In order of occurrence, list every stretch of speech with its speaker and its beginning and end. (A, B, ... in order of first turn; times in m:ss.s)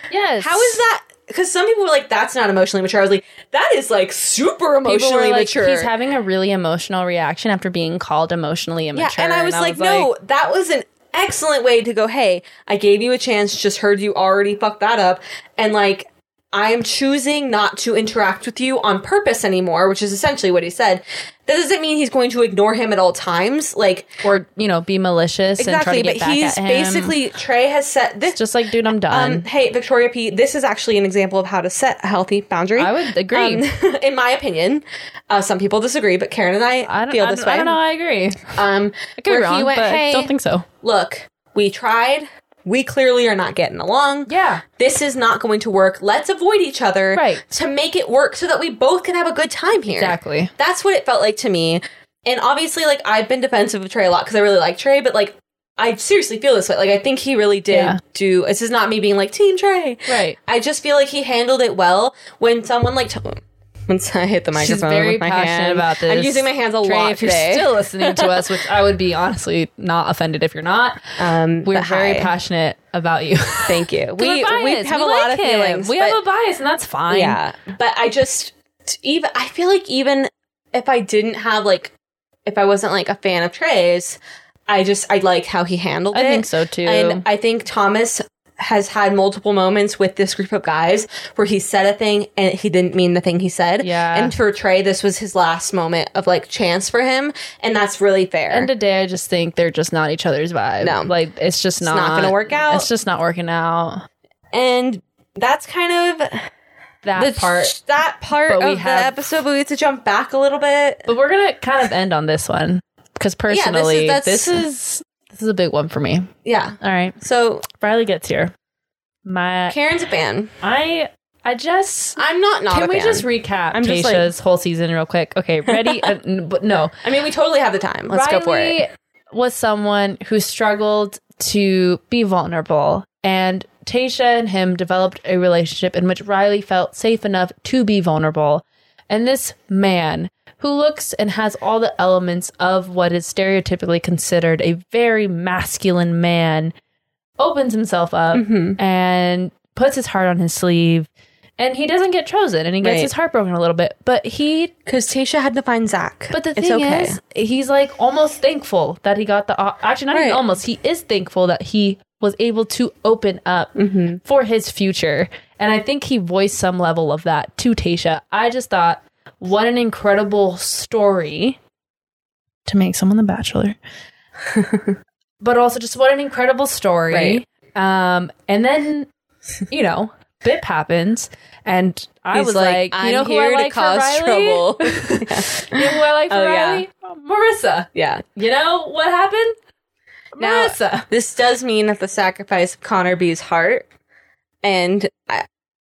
0:00.1-0:00.8 A
0:00.4-0:05.9 B
0:04.8-0:10.1 A
0:08.9-0:24.2 B
0:24.2-0:27.1 A
0:25.6-0:28.4 B
0:28.3-0:29.4 A
0:29.1-0:37.8 B
0:32.8-0:33.6 A
0:36.8-0:38.5 A
0:38.5-1:08.5 B
0:39.2-0:40.6 A
0:44.2-0:44.6 A
0:47.1-0:47.4 A
0:49.9-0:50.5 A
0:57.7-0:58.0 A
1:00.1-1:00.4 A
1:04.5-1:17.4 A
1:11.2-1:12.3 B
1:13.6-1:16.2 B
1:17.1-1:21.9 B
1:22.4-1:38.7 B
1:26.1-1:27.2 A
1:33.8-1:34.3 A
1:38.5-1:44.0 A
1:40.8-1:41.1 B
1:41.8-1:42.9 B
1:44.5-1:46.5 B
1:47.0-1:47.8 A
1:47.2-1:51.1 B
1:48.4-1:49.1 A
1:51.1-1:56.3 A
1:53.5-1:54.6 B
1:56.4-1:57.6 B
1:56.8-1:57.2 A
1:57.7-1:58.5 A
1:59.2-1:59.8 A
1:59.7-2:00.5 B
2:00.6-2:02.2 A
2:02.2-2:04.3 B
2:02.7-2:06.9 A
2:05.7-2:06.1 B
2:07.0-2:08.8 B
2:08.1-2:26.7 A
2:27.4-2:31.1 A
2:28.3-2:28.8 B
2:31.6-2:34.7 A
2:32.8-2:33.1 B
2:34.8-2:37.2 B
2:36.3-2:51.6 A
2:40.1-2:40.4 B
2:43.8-2:44.2 B
2:52.6-2:53.8 A
2:54.5-2:54.9 B
2:55.4-2:59.1 A
2:57.1-2:57.4 B
2:59.7-3:09.6 A
3:02.3-3:06.8 B
3:07.9-3:08.2 B
3:10.4-3:11.1 A
3:10.4-3:13.9 B
3:14.6-3:15.4 B